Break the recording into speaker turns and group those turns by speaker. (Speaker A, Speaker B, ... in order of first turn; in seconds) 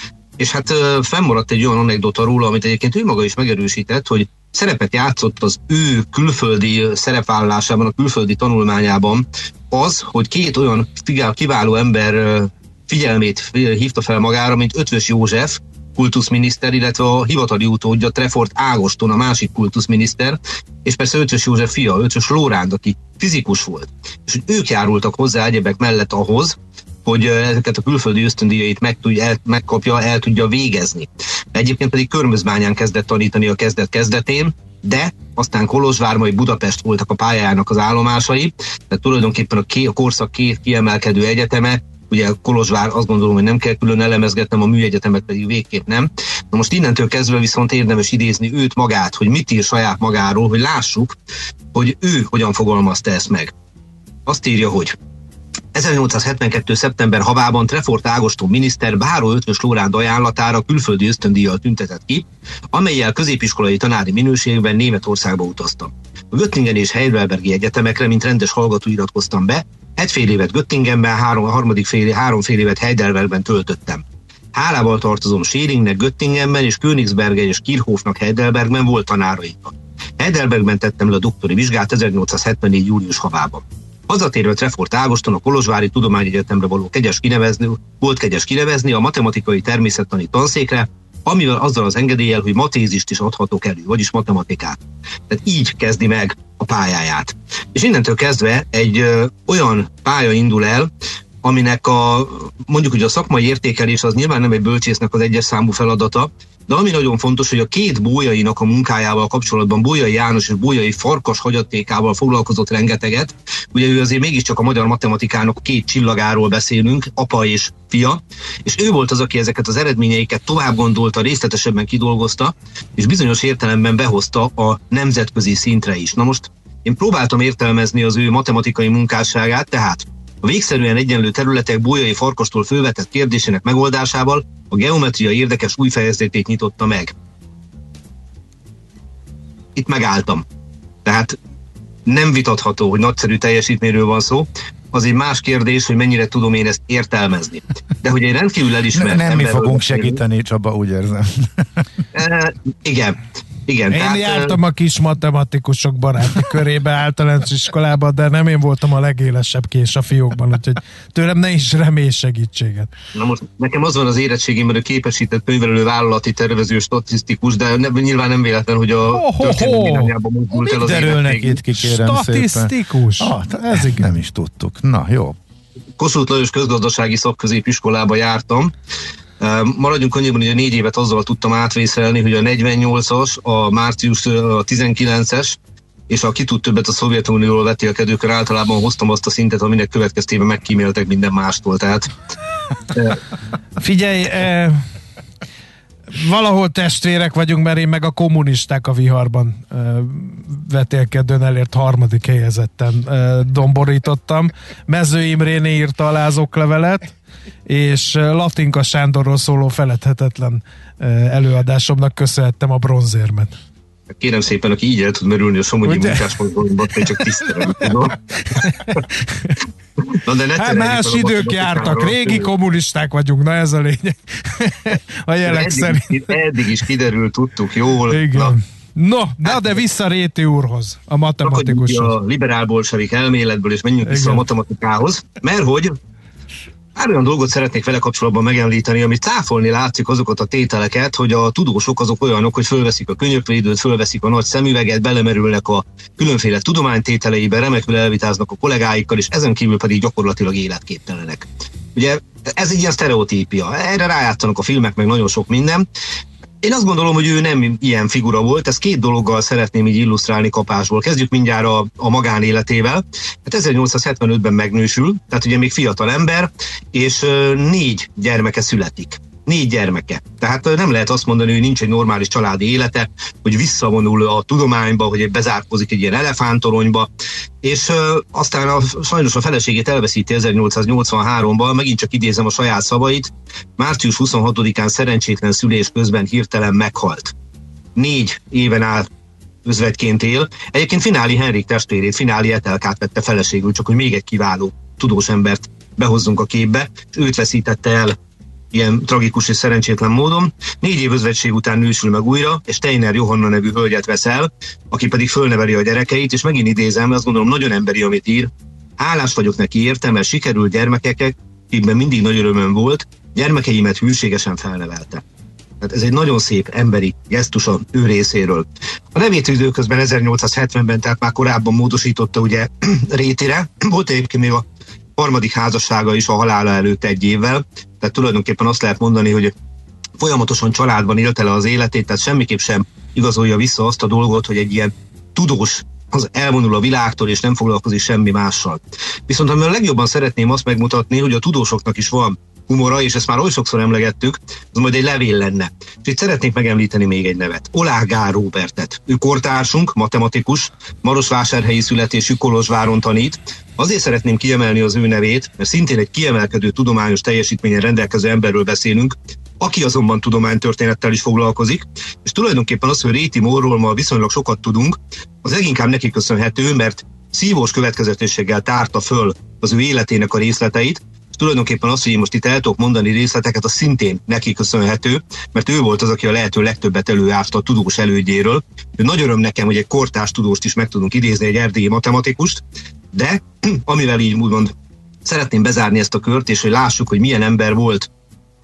Speaker A: 0.4-51.2, 51.7-53.5, 54.2-55.0, 55.7-94.8, 95.3-100.9, 101.4-137.1, 139.8-140.4, 141.1-141.4, 142.1-150.2, 152.1-154.6, 163.1-171.5, 176.0-178.7, 179.4-185.6, 186.1-192.1, 214.1-219.0, 220.1-222.5, 225.4-228.6, 229.4-229.8, 231.4-236.0, 236.9-255.8, 256.6-277.1, 277.6-287.3, 287.9-289.1, 289.6-298.2, 298.7-315.2, 315.8-324.7, 325.2-329.5, 330.2-384.7, 385.2-388.1
Speaker B: 148.9-151.9, 170.7-175.4
Speaker C: 153.9-162.9, 169.1-174.1, 193.8-194.8, 196.1-207.1, 207.7-213.6, 215.8-216.3, 217.0-219.6, 220.6-226.4, 228.1-232.2, 234.0-234.4